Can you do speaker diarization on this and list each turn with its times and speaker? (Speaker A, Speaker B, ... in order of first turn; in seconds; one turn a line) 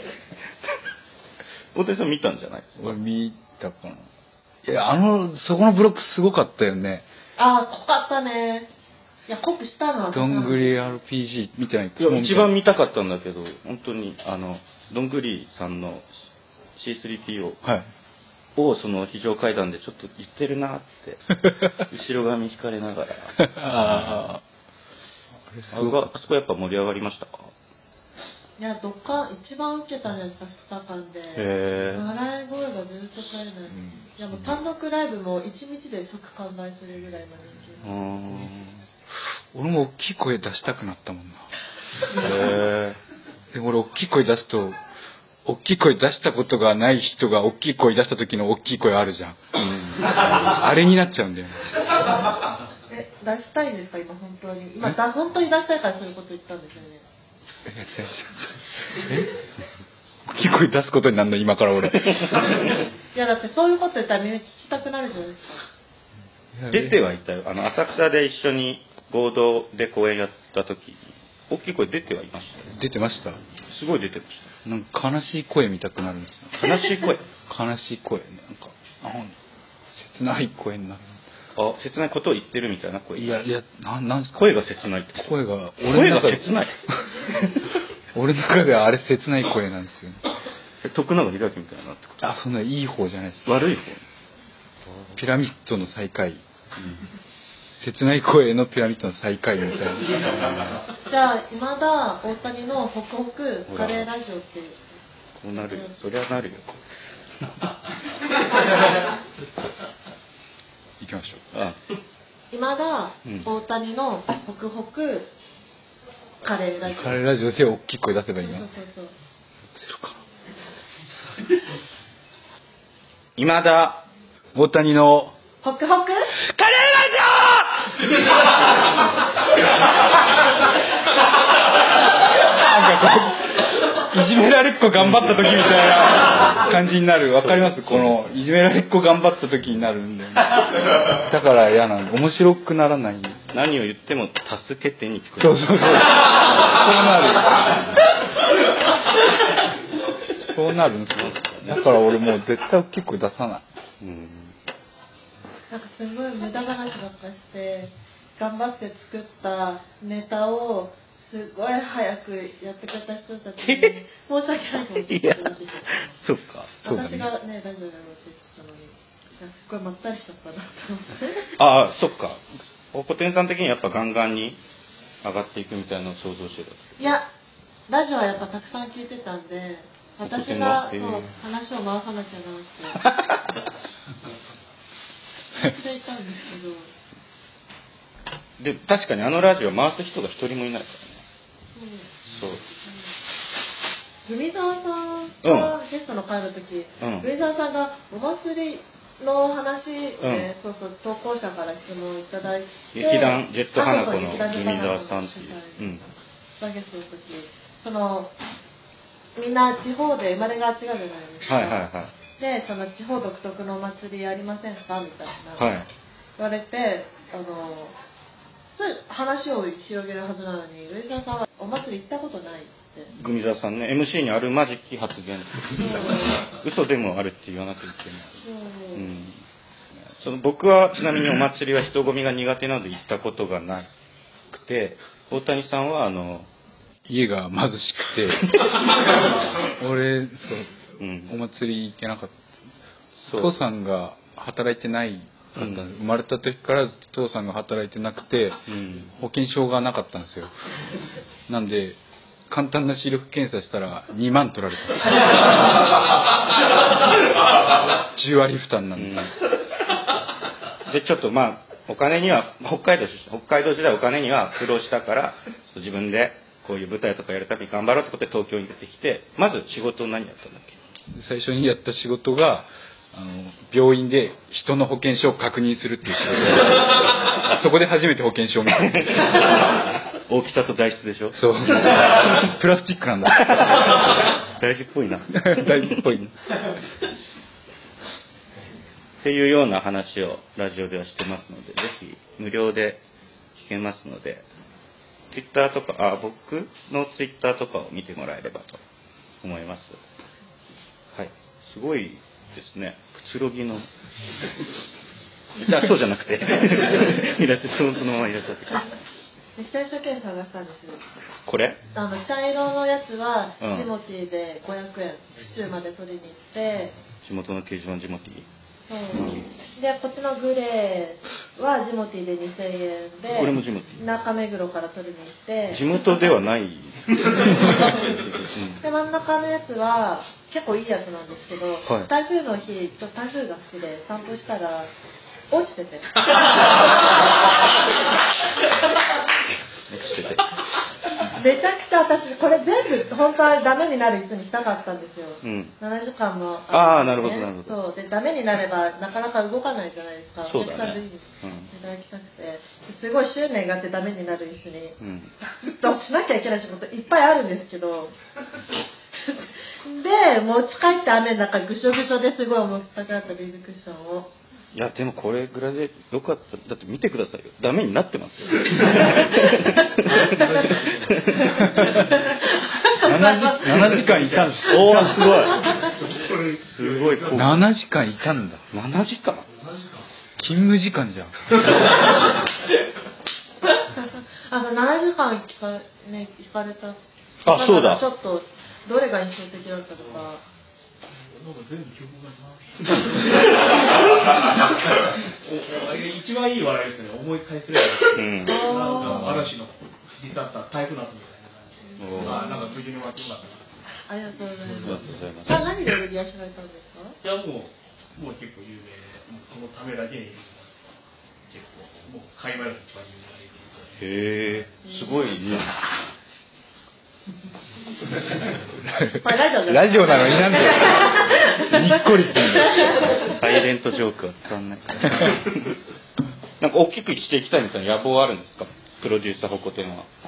Speaker A: 1.7-3.0
Speaker B: 2.8-4.1
Speaker B: 4.6-7.0
Speaker C: 7.4-8.7
Speaker C: 9.3-10.8
Speaker B: 10.1-12.5
Speaker A: 12.0-16.1
Speaker A: 16.8-17.6
Speaker A: 18.6-21.2
Speaker A: 21.8-23.4
Speaker B: 23.4-24.4
Speaker B: 25.5-26.1
Speaker A: 25.7-27.5
Speaker C: 28.6-38.0
Speaker A: 31.3-32.0
Speaker B: 33.7-34.1
Speaker A: 37.8-38.8
Speaker B: 39.5-41.5
Speaker A: 42.1-43.0
Speaker B: 43.5-44.8
Speaker B: 45.4-49.4
Speaker A: 49.6-50.5
Speaker B: 50.1-51.7
Speaker C: 52.9-57.0
Speaker B: 57.6-59.3
Speaker B: 60.2-62.4
Speaker A: 62.1-62.4
Speaker C: 63.1-65.6
Speaker B: 66.5-67.0
Speaker A: 66.7-72.7
Speaker B: 72.7-73.4
Speaker A: 73.7-74.5
Speaker B: 74.6-76.8
Speaker A: 76.6-77.2
Speaker B: 77.5-79.3
Speaker B: 79.9-81.2
Speaker A: 81.5-83.5
Speaker B: 83.2-84.5
Speaker A: 84.3-85.3
Speaker B: 85.2-86.5
Speaker A: 85.9-86.8
Speaker B: 88.1-90.2
Speaker A: 90.8-92.3
Speaker B: 92.2-93.5
Speaker A: 93.4-94.0
Speaker A: 94.9-95.2
Speaker B: 95.2-96.4
Speaker B: 97.7-100.8
Speaker C: 101.0-105.0
Speaker A: 103.7-104.1
Speaker A: 105.4-106.8
Speaker C: 105.5-105.9
Speaker B: 111.0-111.4
Speaker A: 111.5-111.8
Speaker C: 112.5-115.3
Speaker C: 116.4-117.2
Speaker B: 116.8-118.7
Speaker C: 118.4-119.1
Speaker B: 119.7-120.2
Speaker A: 123.3-124.0
Speaker B: 124.5-125.3
Speaker C: 125.6-126.4
Speaker B: 126.5-127.6
Speaker B: 132.4-143.4
Speaker A: 135.0-135.7
Speaker A: 136.3-136.6
Speaker A: 137.4-138.4
Speaker A: 143.5-146.7
Speaker B: 145.4-147.8
Speaker A: 147.7-148.0
Speaker B: 150.4-153.6
Speaker A: 151.1-151.8
Speaker A: 154.0-154.6
Speaker C: 155.7-166.2
Speaker A: 163.6-163.9
Speaker A: 165.1-166.8
Speaker B: 166.8-167.3
Speaker C: 166.8-171.5
Speaker A: 171.6-174.6
Speaker A: 175.2-177.1
Speaker C: 177.0-177.2
Speaker C: 177.9-183.0
Speaker A: 180.2-181.3
Speaker A: 183.0-183.4
Speaker C: 185.6-186.9
Speaker A: 188.6-191.2
Speaker C: 191.7-192.2
Speaker A: 192.3-192.6
Speaker C: 192.8-193.1
Speaker C: 194.2-205.8
Speaker A: 195.4-195.8
Speaker A: 197.0-197.3
Speaker A: 200.2-200.5
Speaker A: 202.9-206.0
Speaker C: 206.6-208.3
Speaker C: 209.3-211.8
Speaker A: 211.4-212.1
Speaker C: 212.4-215.8
Speaker A: 215.6-215.9
Speaker C: 216.4-217.9
Speaker C: 218.7-223.1
Speaker A: 223.1-228.4
Speaker C: 225.7-226.5
Speaker C: 228.4-229.1
Speaker A: 228.9-229.4
Speaker A: 230.2-233.9
Speaker A: 234.5-236.5
Speaker B: 237.1-238.6
Speaker B: 239.6-242.4
Speaker A: 241.0-241.4
Speaker A: 243.2-243.5
Speaker B: 243.3-250.5
Speaker A: 245.6-245.9
Speaker A: 248.7-249.1
Speaker B: 251.5-252.0
Speaker B: 252.5-255.6
Speaker B: 258.0-259.2
Speaker A: 259.0-259.3
Speaker A: 260.9-270.8
Speaker B: 271.1-279.4
Speaker A: 278.8-282.5
Speaker B: 281.3-284.0
Speaker A: 283.4-286.1
Speaker B: 285.3-286.6
Speaker A: 289.2-293.0
Speaker A: 293.6-294.5
Speaker A: 295.3-298.8
Speaker A: 299.4-300.0
Speaker A: 301.1-303.9
Speaker A: 305.6-308.9
Speaker C: 309.6-311.0
Speaker A: 311.4-311.8
Speaker C: 311.9-316.9
Speaker A: 313.6-313.9
Speaker A: 317.2-318.5
Speaker C: 318.9-326.2
Speaker A: 319.2-319.4
Speaker A: 323.3-324.0
Speaker A: 325.7-328.8
Speaker C: 327.5-328.1
Speaker C: 328.8-334.9
Speaker C: 335.5-336.7
Speaker A: 339.9-340.5
Speaker C: 341.3-355.0
Speaker A: 345.4-345.7
Speaker A: 346.7-347.7
Speaker A: 350.5-351.7
Speaker A: 355.0-355.3
Speaker C: 355.6-358.1
Speaker C: 359.2-364.3
Speaker A: 364.7-371.7
Speaker D: 370.1-372.1
Speaker C: 371.4-374.1
Speaker B: 372.9-375.4
Speaker D: 373.8-374.6
Speaker A: 374.6-375.7
Speaker C: 374.9-376.0
Speaker D: 375.7-377.5
Speaker A: 376.5-377.6
Speaker B: 377.3-378.6
Speaker A: 378.7-379.5
Speaker B: 380.4-381.6
Speaker C: 384.0-390.4
Speaker A: 387.4-388.0
Speaker D: 391.1-393.6
Speaker D: 395.3-403.7
Speaker A: 398.1-399.5
Speaker C: 398.4-399.4
Speaker C: 401.9-402.8
Speaker A: 402.0-402.4
Speaker C: 404.1-407.2
Speaker D: 404.6-405.2
Speaker A: 404.8-405.7
Speaker D: 407.2-410.9
Speaker D: 411.5-414.1
Speaker A: 414.0-415.8
Speaker C: 414.8-415.2
Speaker B: 418.8-423.2
Speaker C: 419.2-423.6
Speaker A: 423.2-425.8
Speaker A: 426.6-430.1